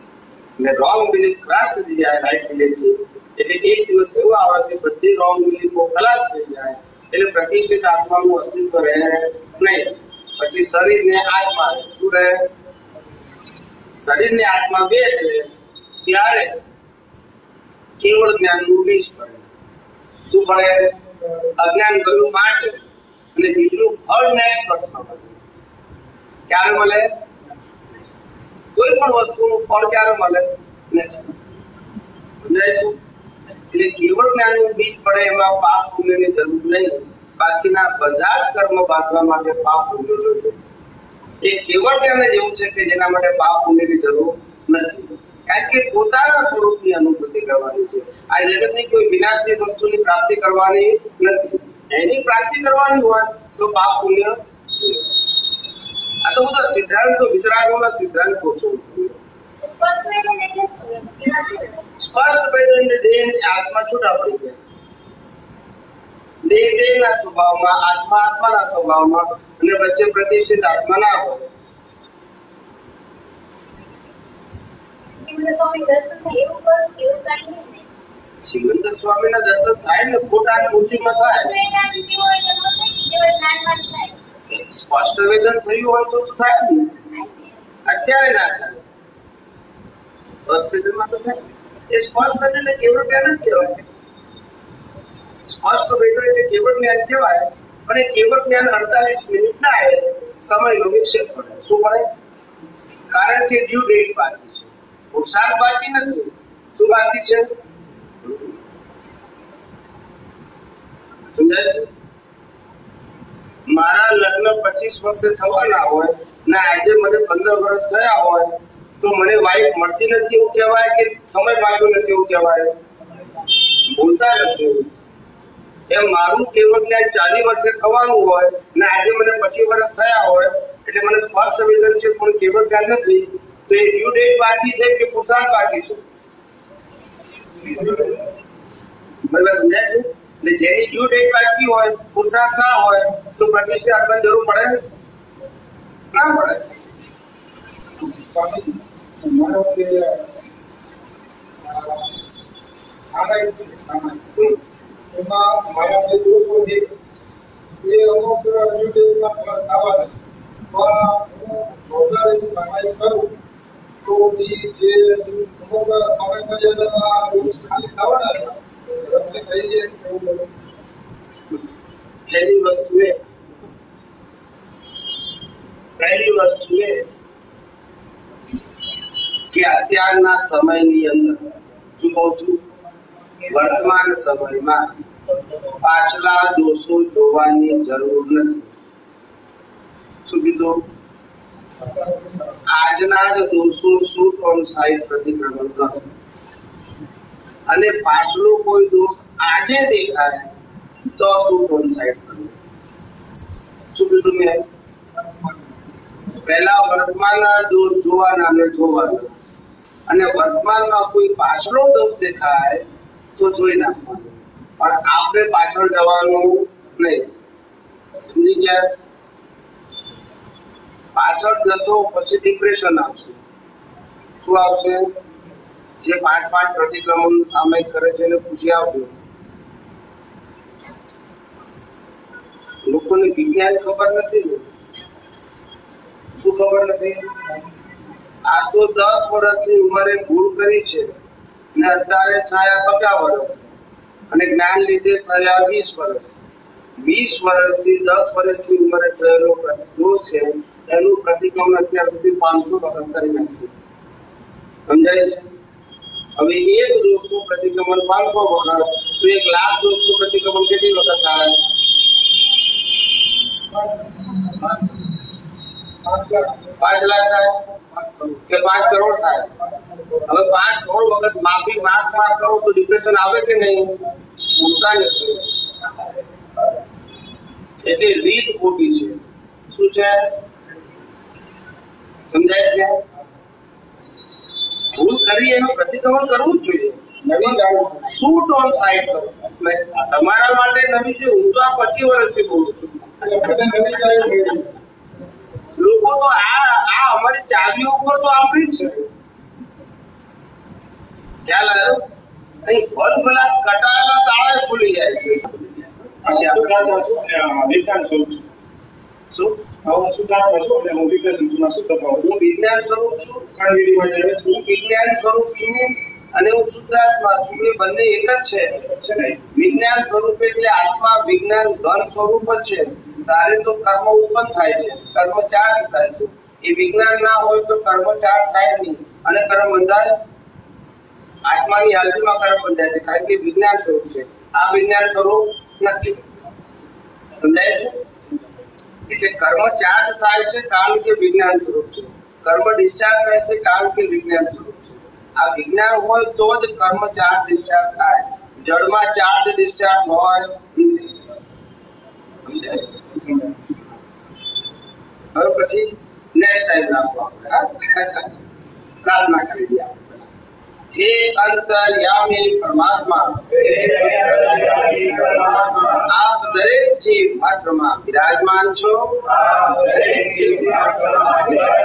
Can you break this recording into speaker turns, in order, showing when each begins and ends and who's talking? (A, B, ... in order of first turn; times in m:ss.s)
0:00.6-0:12.5 A
0:13.9-0:15.5 A
0:16.0-0:16.6 A
0:18.0-0:19.5 A
0:20.3-0:20.9 A
0:21.6-0:25.4 A
0:26.5-0:27.1 A
0:28.7-0:31.4 A
0:32.4-0:33.0 A
0:33.7-0:40.6 A
0:41.4-0:55.1 A
0:56.2-0:59.2 A
0:59.6-1:01.8 B
1:02.0-1:04.6 A
1:06.4-1:11.5 A
1:15.2-1:17.8 B
1:18.4-1:21.5 A
1:20.7-1:24.2 B
1:24.5-1:27.0 A
1:27.1-1:27.6 B
1:27.8-1:28.8 A
1:30.4-1:33.8 A
1:35.4-1:42.1 A
1:43.1-1:47.5 A
1:48.2-1:48.5 A
1:51.3-1:51.9 A
1:53.7-2:02.8 A
2:03.7-2:04.9 A
2:05.9-2:16.0 A
2:17.7-2:18.0 C
2:19.3-2:24.8 A
2:26.1-2:26.7 A
2:28.0-2:30.3 D
2:31.6-2:32.1 D
2:33.0-2:34.3 D
2:35.1-2:36.9 D
2:37.8-2:40.2 D
2:40.7-2:43.4 D
2:44.0-2:50.5 D
2:52.3-2:53.5 A
2:56.0-2:57.0 A
2:59.5-3:02.6 A
3:03.5-3:04.9 A
3:05.8-3:08.7 A
3:10.2-3:10.8 A
3:11.8-3:12.6 D
3:12.6-3:16.1 A
3:17.7-3:20.5 A
3:21.2-3:22.6 A
3:23.9-3:24.6 A
3:26.4-3:29.3 A
3:30.1-3:32.8 A
3:33.4-3:37.3 A
3:38.2-3:38.9 A
3:41.1-3:43.4 A
3:44.4-3:45.1 A
3:46.0-3:49.1 A
3:52.8-3:54.7 A
3:56.4-3:57.3 A
3:58.4-4:01.1 A
4:01.7-4:03.7 A
4:04.3-4:06.3 A
4:07.0-4:13.7 A
4:14.9-4:15.5 A
4:16.4-4:21.6 A
4:23.7-4:24.6 D
4:26.0-4:26.8 D
4:26.8-4:27.6 A
4:28.5-4:29.5 A
4:29.6-4:30.2 D
4:30.3-4:35.5 A
4:37.8-4:40.3 A
4:42.3-4:43.0 A
4:44.9-4:54.2 A
4:47.2-4:48.2 D
4:53.2-4:54.7 D
4:55.8-4:59.1 A
5:01.4-5:02.0 A
5:02.6-5:07.1 A
5:06.2-5:08.5 C
5:09.3-5:09.6 A
5:09.8-5:12.2 C
5:12.2-5:13.5 A
5:13.5-5:14.6 C
5:14.4-5:18.8 A
5:18.8-5:19.4 C
5:19.5-5:30.2 A
5:31.4-5:36.2 A
5:37.4-5:38.0 A
5:39.1-5:51.1 A
5:52.4-5:52.9 A
5:53.1-5:53.5 C
5:55.3-5:58.4 A
5:59.0-6:00.3 A
6:00.9-6:11.5 A